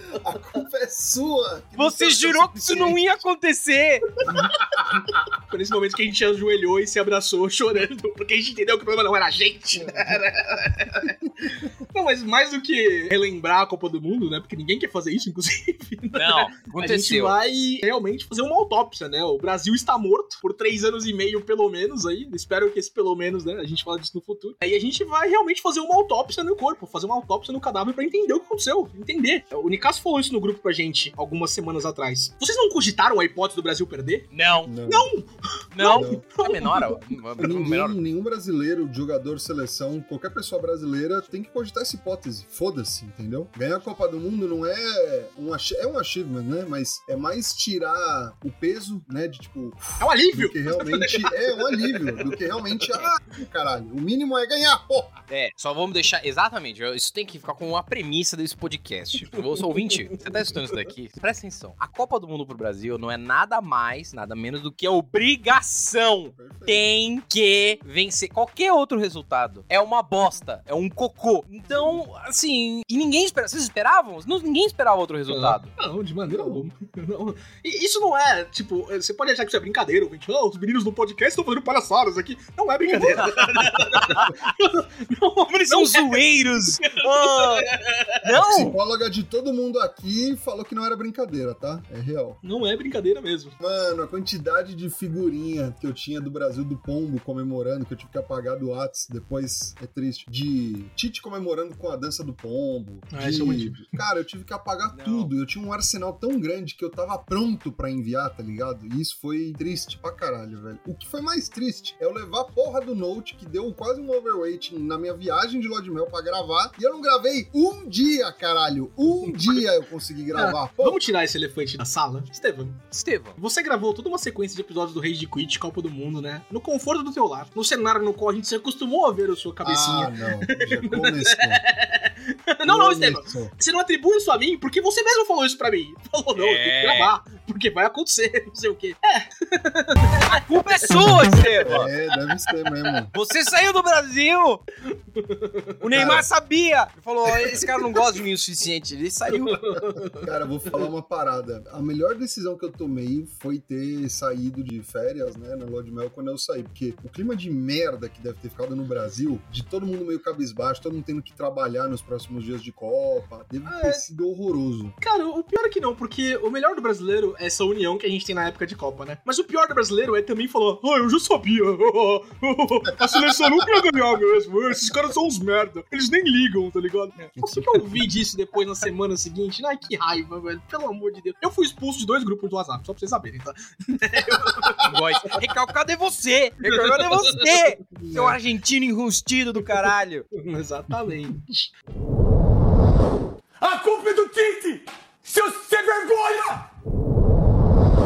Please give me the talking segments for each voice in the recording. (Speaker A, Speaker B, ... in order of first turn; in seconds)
Speaker A: 0.1-3.0, 4.3-5.1, 34.7-35.1, 35.9-36.2, 37.4-55.1, 66.3-66.9, 76.3-76.6, 88.4-92.4, 93.6-121.0, 129.6-131.6, 132.6-133.5, 141.6-143.1, 145.9-146.3, 150.2-165.0, 177.4-177.9, 184.6-184.9
Speaker B: 1.8-4.1, 16.1-17.4, 34.3-34.7, 35.7-38.0, 55.3-75.7, 83.0-84.3, 85.5-87.7, 88.2-88.8, 104.9-105.3, 122.9-123.4, 136.3-137.1, 140.3-141.9, 143.1-144.6, 145.8-149.6, 184.8-190.3
Speaker C: 4.4-34.3, 34.9-37.0, 50.0-52.4, 75.3-86.2, 86.8-88.2, 92.4-93.5, 103.1-104.0, 119.2-119.7, 120.3-122.8, 123.4-142.6, 144.9-146.1, 147.3-148.0, 149.3-150.8, 163.7-164.0, 165.0-185.4, 186.7-188.4, 190.4-191.7
Speaker D: 193.6-196.7